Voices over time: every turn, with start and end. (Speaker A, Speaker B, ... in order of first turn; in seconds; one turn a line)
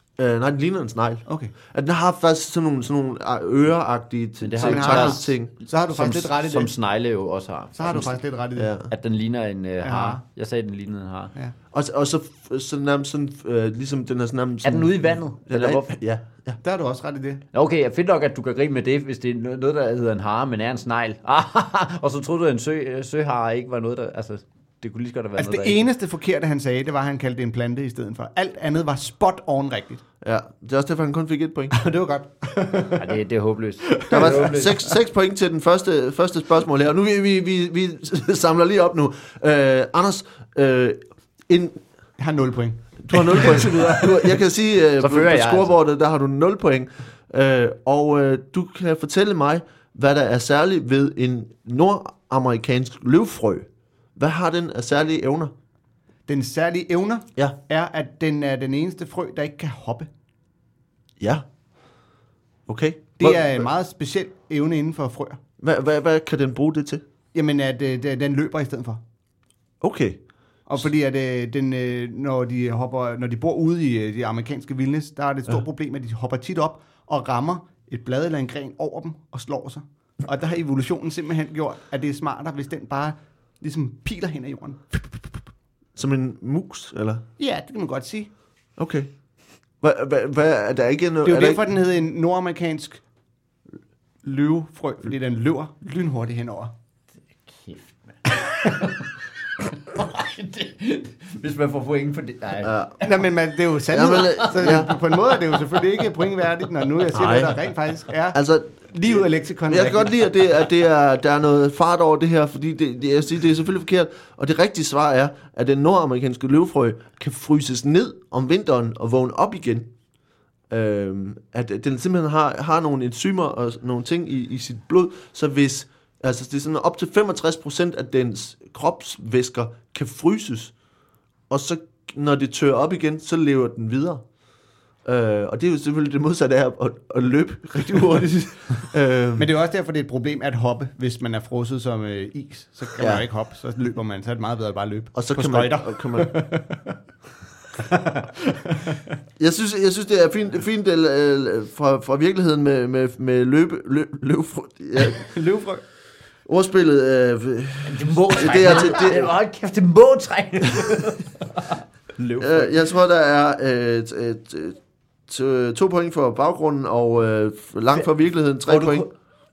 Speaker A: 0.2-5.5
Speaker B: 1.3-1.5
Speaker C: 4.4-5.3
Speaker B: 4.6-6.7
Speaker C: 5.9-8.1
Speaker B: 7.7-8.7
Speaker A: 8.6-8.9
Speaker C: 8.9-11.3
Speaker B: 9.8-10.2
Speaker A: 11.7-16.6
Speaker C: 14.6-15.9
Speaker B: 16.6-17.4
Speaker C: 17.5-25.8
Speaker B: 25.4-30.0
Speaker A: 30.2-31.8
Speaker B: 31.7-33.2
Speaker C: 33.0-34.9
Speaker B: 33.9-34.7
Speaker A: 34.1-41.8
Speaker B: 42.2-44.0
Speaker A: 43.0-55.5
Speaker C: 45.0-45.7
Speaker B: 56.3-60.1
Speaker A: 61.2-61.4
Speaker A: 62.7-63.6
Speaker B: 63.2-65.4
Speaker A: 65.6-67.0
Speaker B: 67.3-69.0
Speaker A: 69.8-70.2
Speaker B: 70.7-85.4
Speaker A: 86.0-87.2
Speaker B: 87.4-88.3
Speaker A: 88.8-89.1
Speaker A: 89.8-91.6
Speaker B: 91.2-93.0
Speaker B: 94.2-96.7
Speaker C: 97.5-99.1
Speaker C: 99.6-103.1
Speaker A: 102.6-103.0
Speaker B: 103.0-110.1
Speaker A: 103.9-104.9
Speaker C: 104.6-105.6
Speaker A: 107.1-107.6
Speaker A: 108.3-119.9
Speaker A: 120.7-130.7
Speaker A: 131.5-134.2
Speaker A: 135.0-139.5
Speaker B: 139.4-147.0
Speaker A: 143.0-143.2
Speaker A: 145.1-146.4
Speaker B: 147.7-149.1
Speaker A: 149.4-155.3
Speaker B: 155.0-155.8
Speaker A: 156.5-159.3
Speaker C: 157.8-162.8
Speaker A: 162.4-169.1
Speaker C: 168.7-169.1